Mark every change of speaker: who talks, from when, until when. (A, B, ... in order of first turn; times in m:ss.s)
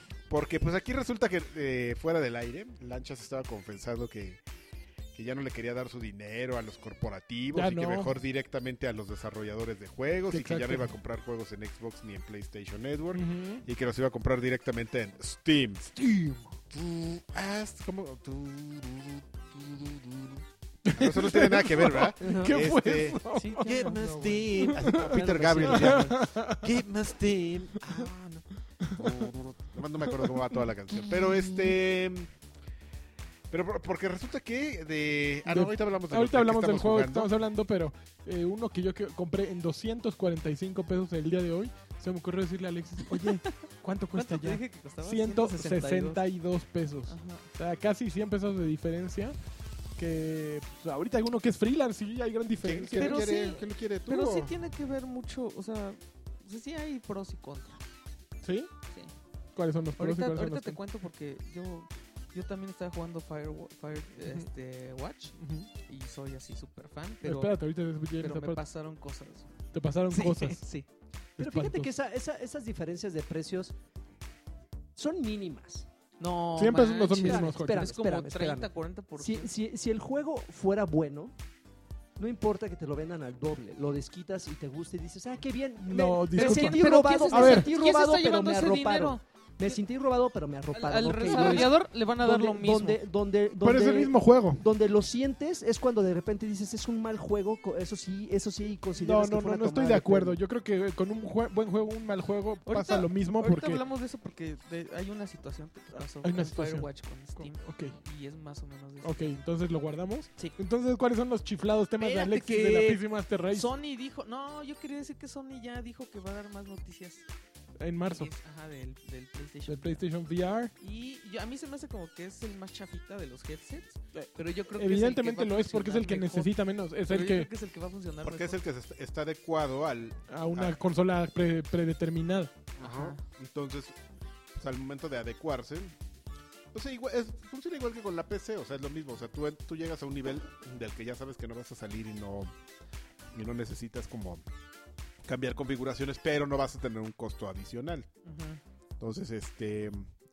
0:00.3-0:04.4 A
0:05.1-0:16.1 A
0:07.5-0:08.2 B
0:10.3-0:10.9 B
0:13.1-0:13.6 B
0:16.7-0:32.3 A
0:20.8-0:23.8 B
0:22.2-0:22.6 C
0:23.3-0:24.4 D
0:23.9-0:26.3 C
0:24.5-0:26.8 B
0:28.8-0:29.3 B
0:30.1-0:31.8 B
0:33.5-0:37.3 A
0:35.4-0:49.4 B
0:43.1-0:46.2 D
0:47.1-0:47.5 D
0:50.0-0:53.2 B
0:52.6-0:54.5 A
0:53.0-0:57.8 D
0:58.4-0:58.7 B
0:59.5-1:00.8 B
1:00.0-1:07.6 D
1:05.4-1:05.7 B
1:07.2-1:08.6 B
1:08.2-1:09.5 D
1:09.7-1:10.6 B
1:10.1-1:10.9 D
1:11.4-1:11.9 B
1:11.4-1:13.7 C
1:15.0-1:15.9 C
1:16.2-1:19.5 D
1:16.6-1:17.9 B
1:17.2-1:21.3 C
1:22.2-1:40.4 C
1:25.8-1:27.7 B
1:26.3-1:29.7 D
1:30.7-1:33.0 D
1:31.3-1:31.7 B
1:33.6-1:34.6 B
1:39.0-1:43.8 B
1:42.6-1:49.3 D
1:46.0-1:48.0 B
1:49.0-1:53.7 B
1:52.0-1:57.3 D
1:57.8-1:58.3 B
1:58.0-2:00.0 D
1:59.7-2:00.7 B
2:00.8-2:06.5 D
2:04.1-2:07.5 B
2:07.1-2:08.6 D
2:08.2-2:10.7 A
2:10.3-2:12.5 B
2:12.8-2:14.0 A
2:12.8-2:13.2 D
2:14.5-2:16.0 A
2:16.7-2:22.5 A
2:23.3-2:24.4 A
2:25.2-2:28.1 A
2:28.2-2:28.6 D
2:29.0-2:30.1 A